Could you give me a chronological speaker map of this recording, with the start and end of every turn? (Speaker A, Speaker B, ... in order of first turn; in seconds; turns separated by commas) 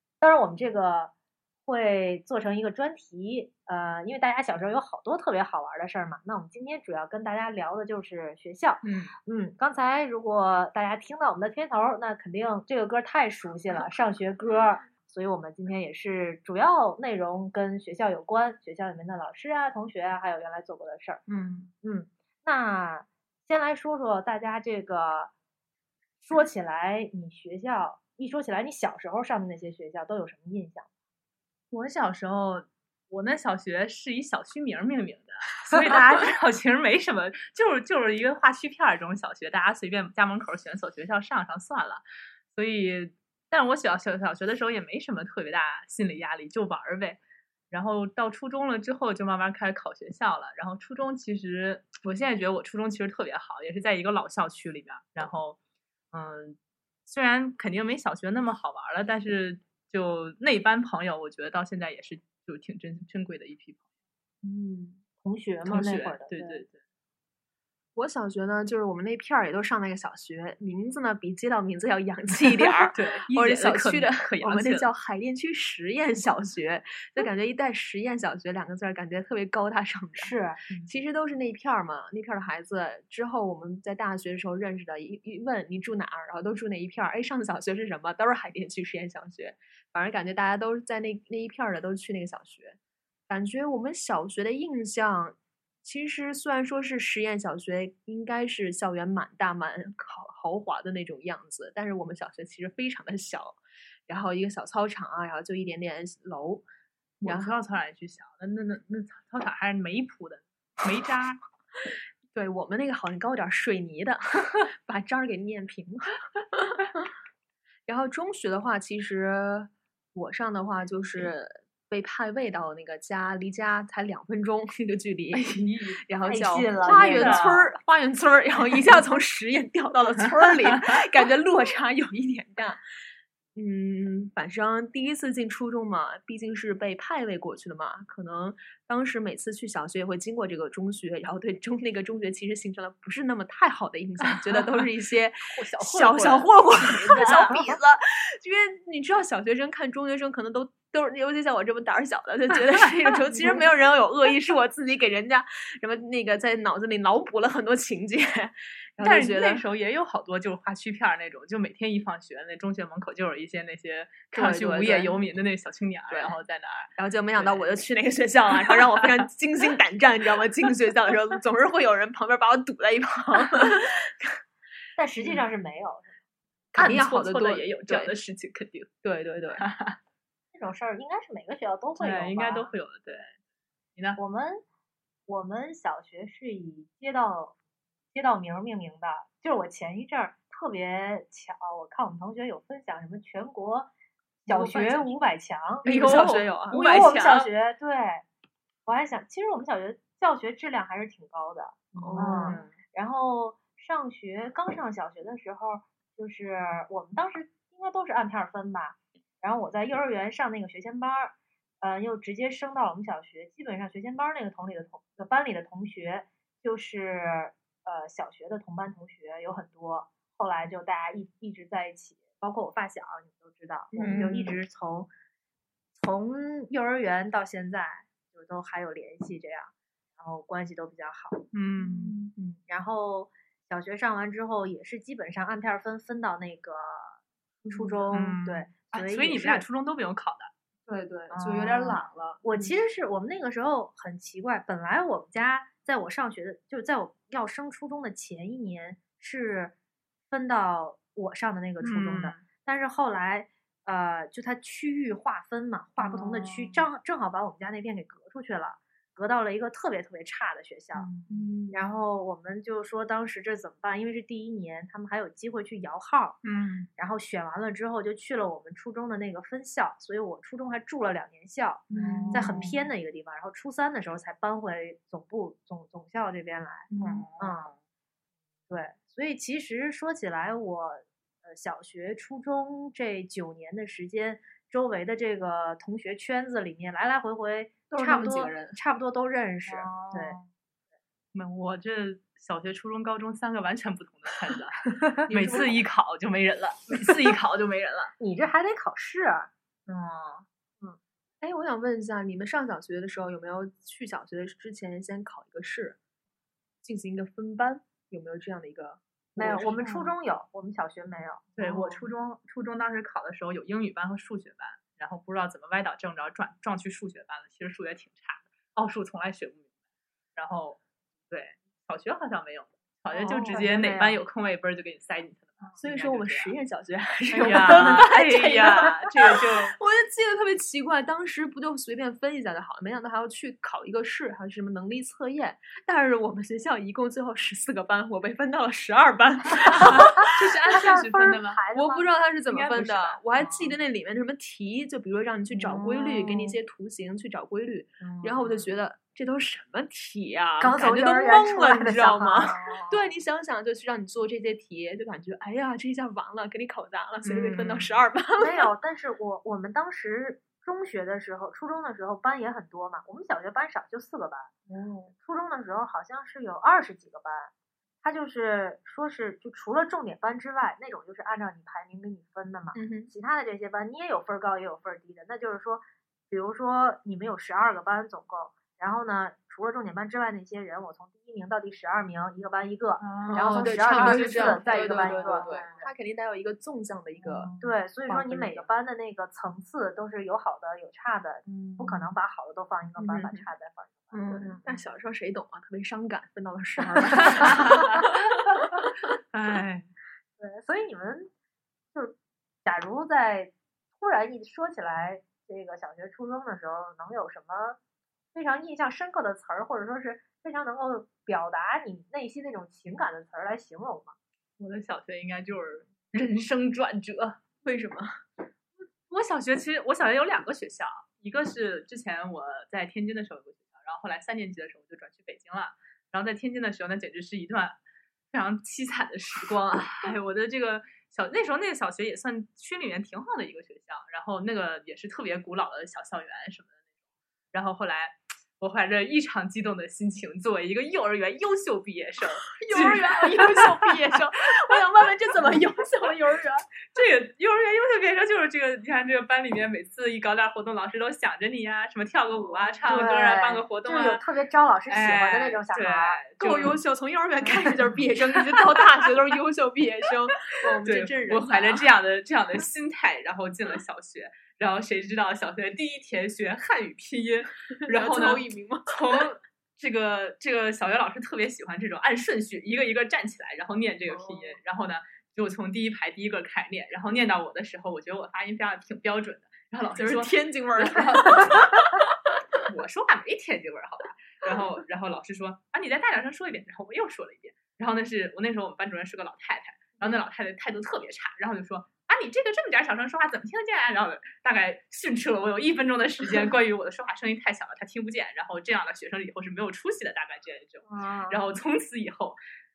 Speaker A: 0.2-1.1, Speaker A: 1.6-21.2, Speaker B: 8.8-9.1, Speaker B: 21.3-21.7, Speaker A: 21.8-25.3, Speaker A: 26.2-30.9, Speaker B: 31.7-42.0, Speaker B: 42.5-47.2, Speaker B: 47.7-55.6, Speaker B: 56.1-63.8, Speaker A: 64.4-66.6, Speaker B: 65.6-66.8, Speaker C: 68.0-92.8, Speaker B: 72.9-74.9, Speaker A: 80.2-80.6, Speaker C: 93.3-106.6, Speaker B: 107.2-111.4, Speaker C: 107.2-107.5, Speaker C: 112.3-117.1, Speaker C: 117.9-132.8, Speaker B: 125.3-126.0, Speaker A: 126.2-127.5, Speaker B: 126.8-127.7, Speaker C: 133.5-159.6, Speaker B: 145.5-147.7, Speaker B: 159.0-167.6, Speaker C: 164.3-165.2, Speaker C: 167.0-174.3, Speaker B: 168.6-169.3, Speaker A: 175.0-176.2, Speaker B: 176.7-178.9, Speaker C: 176.7-178.1, Speaker C: 179.0-179.6, Speaker B: 179.6-180.0, Speaker A: 180.5-182.7, Speaker B: 182.0-183.4, Speaker A: 184.2-184.6, Speaker A: 185.3-187.6, Speaker A: 188.1-193.9, Speaker A: 194.4-195.9, Speaker C: 194.5-195.0, Speaker B: 194.5-195.1, Speaker C: 195.8-196.7, Speaker B: 195.8-197.5, Speaker A: 196.7-198.2, Speaker A: 198.8-225.1, Speaker C: 201.9-202.6, Speaker B: 202.0-202.7, Speaker C: 223.9-224.4, Speaker B: 224.0-224.4, Speaker A: 226.0-231.4, Speaker B: 231.5-232.2, Speaker C: 231.8-232.6, Speaker A: 232.7-239.6, Speaker C: 237.7-238.0, Speaker B: 238.1-240.5, Speaker C: 240.9-242.8, Speaker B: 241.3-242.0, Speaker A: 241.8-249.7, Speaker A: 250.3-261.1, Speaker B: 251.8-252.4, Speaker B: 256.0-256.8, Speaker B: 260.9-261.3, Speaker C: 261.3-261.8, Speaker A: 261.7-266.4, Speaker B: 266.4-266.9, Speaker A: 267.0-277.7, Speaker C: 271.9-272.7, Speaker B: 271.9-272.7, Speaker B: 276.9-277.7, Speaker C: 277.0-277.2, Speaker A: 278.7-290.4, Speaker C: 287.9-288.8, Speaker B: 289.6-290.5, Speaker B: 291.3-298.1, Speaker C: 295.3-295.8, Speaker A: 298.2-299.5, Speaker B: 299.9-300.4, Speaker C: 301.4-306.0, Speaker C: 306.8-309.7, Speaker A: 309.4-311.5, Speaker B: 309.4-310.1, Speaker B: 311.6-319.7, Speaker C: 311.6-312.1, Speaker B: 320.4-326.5, Speaker A: 323.2-324.2, Speaker C: 323.3-323.6, Speaker C: 325.8-340.5, Speaker B: 327.3-329.8, Speaker A: 327.5-328.0, Speaker B: 339.7-341.6, Speaker A: 340.7-342.1, Speaker C: 341.7-358.7, Speaker B: 342.5-343.8, Speaker A: 345.5-346.5, Speaker B: 348.0-348.7, Speaker A: 350.6-352.9, Speaker B: 357.2-358.0, Speaker A: 358.4-364.5, Speaker C: 364.7-365.1, Speaker A: 365.2-385.9, Speaker C: 372.7-373.1, Speaker B: 383.0-385.8, Speaker C: 383.3-387.5, Speaker B: 387.2-388.2, Speaker A: 387.6-394.6, Speaker C: 388.1-388.7, Speaker B: 391.4-392.1, Speaker C: 393.0-393.5, Speaker C: 394.1-398.1, Speaker B: 397.1-398.4, Speaker A: 397.2-397.5, Speaker B: 399.3-399.9, Speaker A: 400.4-401.3, Speaker A: 401.9-407.8, Speaker A: 408.3-414.1, Speaker B: 414.6-417.4, Speaker C: 417.6-418.2, Speaker B: 419.1-427.8, Speaker B: 428.3-436.8, Speaker B: 437.5-444.2, Speaker C: 442.6-446.6, Speaker B: 446.9-454.2, Speaker C: 452.4-453.1, Speaker A: 452.9-456.2, Speaker B: 454.9-456.8, Speaker C: 456.4-461.9, Speaker B: 457.5-458.8, Speaker B: 460.8-481.9, Speaker C: 467.9-469.0, Speaker C: 474.1-474.6, Speaker C: 479.9-482.4, Speaker B: 482.6-502.4, Speaker A: 500.9-501.4